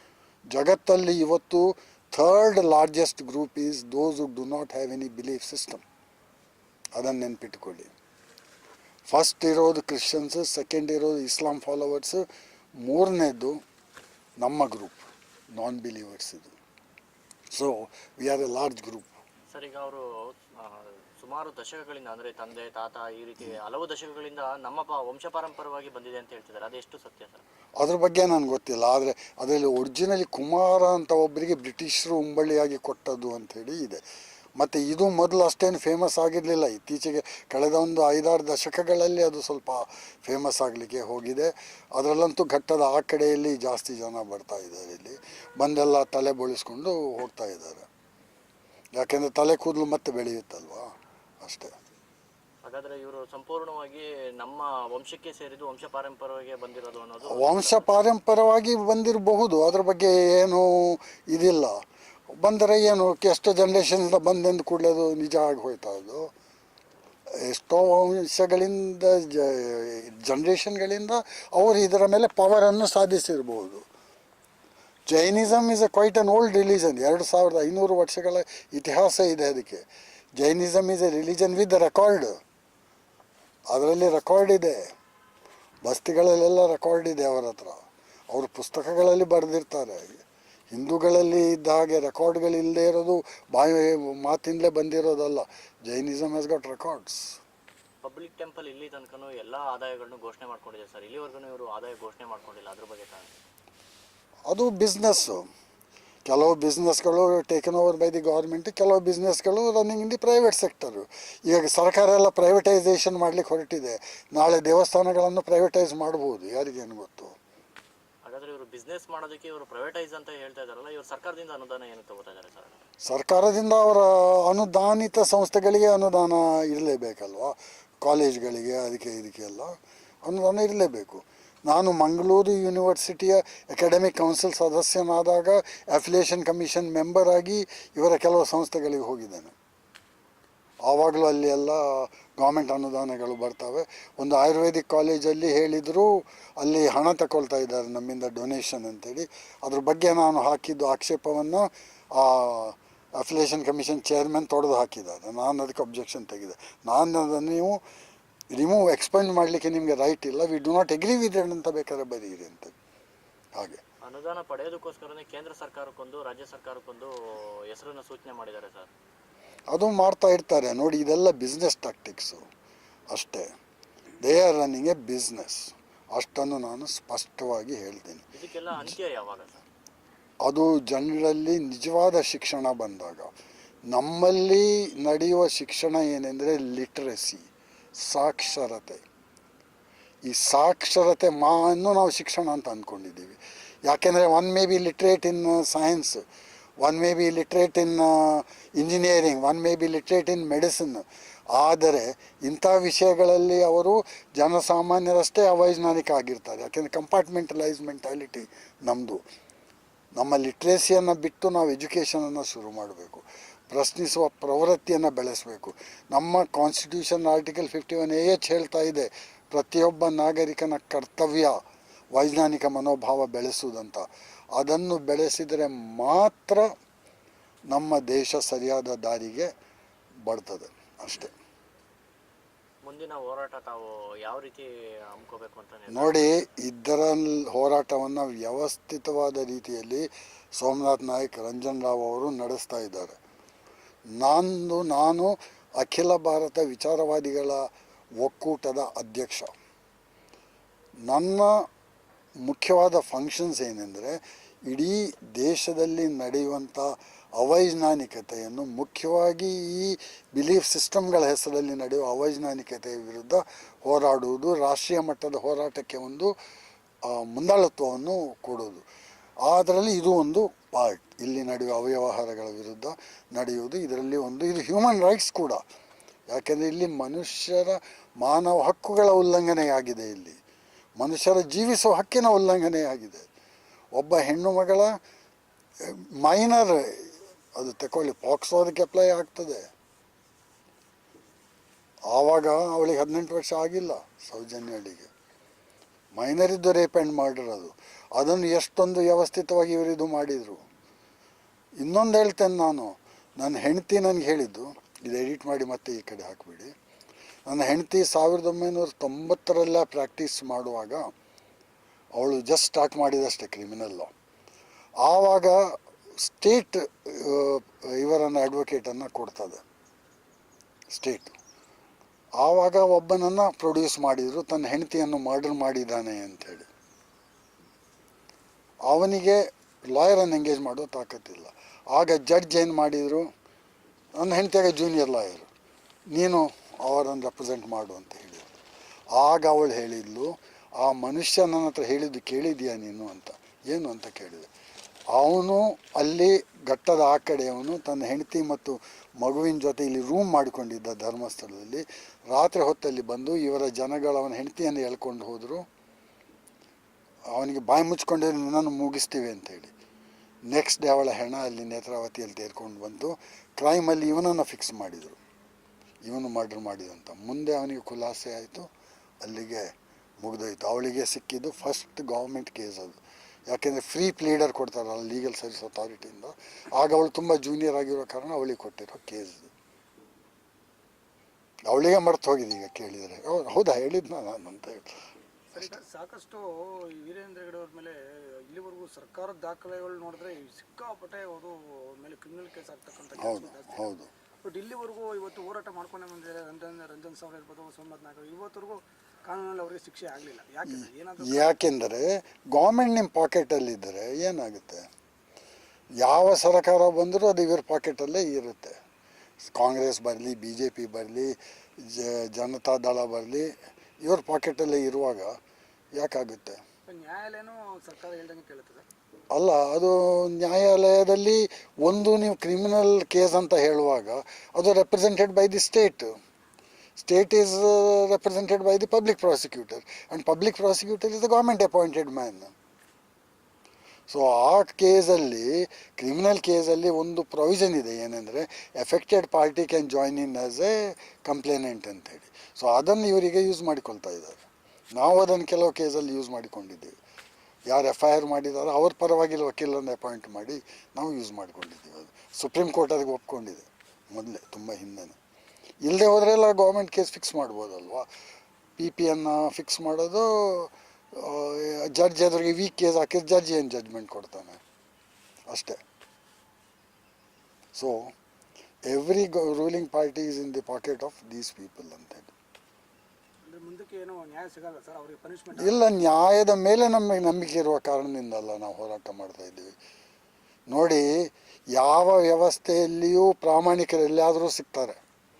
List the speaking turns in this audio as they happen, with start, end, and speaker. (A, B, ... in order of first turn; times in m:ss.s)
0:00.5-0:05.8 A
0:07.0-0:07.9 A
0:09.1-0:12.2 A
0:12.8-0:13.6 A
0:14.4-0:16.5 A
0:17.5-0:19.2 A
0:19.5-0:20.0 B
0:20.6-0:27.4 B
0:27.8-0:34.0 A
0:34.6-0:47.9 A
0:49.0-0:51.7 A
0:52.6-0:57.8 B
0:57.3-1:01.8 A
1:02.4-1:06.3 A
1:07.4-1:13.8 A
1:15.1-1:19.8 A
1:20.4-1:22.4 A
1:23.7-1:24.8 A
1:25.8-1:30.2 A
1:30.7-1:37.4 A
1:38.0-1:43.3 B
1:44.5-1:45.5 A
1:46.3-1:57.3 A
1:58.2-2:02.8 B
2:03.0-2:09.7 A
2:10.2-2:19.5 A
2:20.9-2:37.8 A
2:38.5-2:42.7 A
2:43.6-2:43.8 A
2:44.0-2:47.1 B
2:47.7-2:48.9 B
2:49.7-2:52.4 A
2:53.1-2:53.5 A
2:54.2-2:58.2 A
2:58.3-2:59.6 B
3:00.4-3:03.3 A
3:03.9-3:07.4 A
3:08.0-3:09.0 A
3:10.2-3:16.2 A
3:16.8-3:29.2 A
3:30.2-3:41.6 A
3:42.1-3:46.7 A
3:47.7-3:49.5 A
3:50.2-3:51.3 A
3:52.8-3:56.4 B
3:55.9-4:03.2 A
4:04.2-4:07.6 A
4:08.2-4:09.5 A
4:11.1-4:11.6 A
4:12.4-4:26.3 A
4:27.0-4:28.8 A
4:29.4-4:35.6 A
4:36.3-4:40.4 A
4:41.0-4:43.3 A
4:44.0-4:44.9 A
4:45.8-4:49.7 A
4:52.1-4:55.1 A
4:56.1-5:00.6 A
5:01.8-5:06.7 A
5:07.5-5:11.0 A
5:12.2-5:14.1 A
5:15.0-5:15.6 A
5:16.2-5:19.6 A
5:20.9-5:21.3 A
5:22.4-5:26.7 A
5:28.9-5:33.2 A
5:34.2-5:35.5 A
5:36.1-5:38.5 A
5:39.2-5:44.5 A
5:45.1-5:55.6 A
5:57.3-5:59.7 A
6:00.5-6:05.2 A
6:06.0-6:08.7 A
6:09.2-6:19.5 A
6:21.7-6:24.9 A
6:25.5-6:33.8 C
6:33.2-6:34.1 A
6:34.4-6:41.6 C
6:40.7-6:44.8 A
6:46.0-6:48.8 A
6:49.5-6:53.5 A
6:54.0-6:55.3 A
6:56.0-6:56.6 A
6:56.9-6:58.8 C
6:59.3-7:06.1 A
7:07.0-7:12.5 A
7:14.1-7:24.4 A
7:25.0-7:27.0 A
7:27.7-7:35.2 A
7:35.8-7:38.1 A
7:38.8-7:44.6 A
7:45.5-7:45.8 A
7:47.7-7:48.1 A
7:48.9-7:52.3 A
7:53.5-7:55.8 C
7:55.6-7:59.7 A
8:00.7-8:05.0 A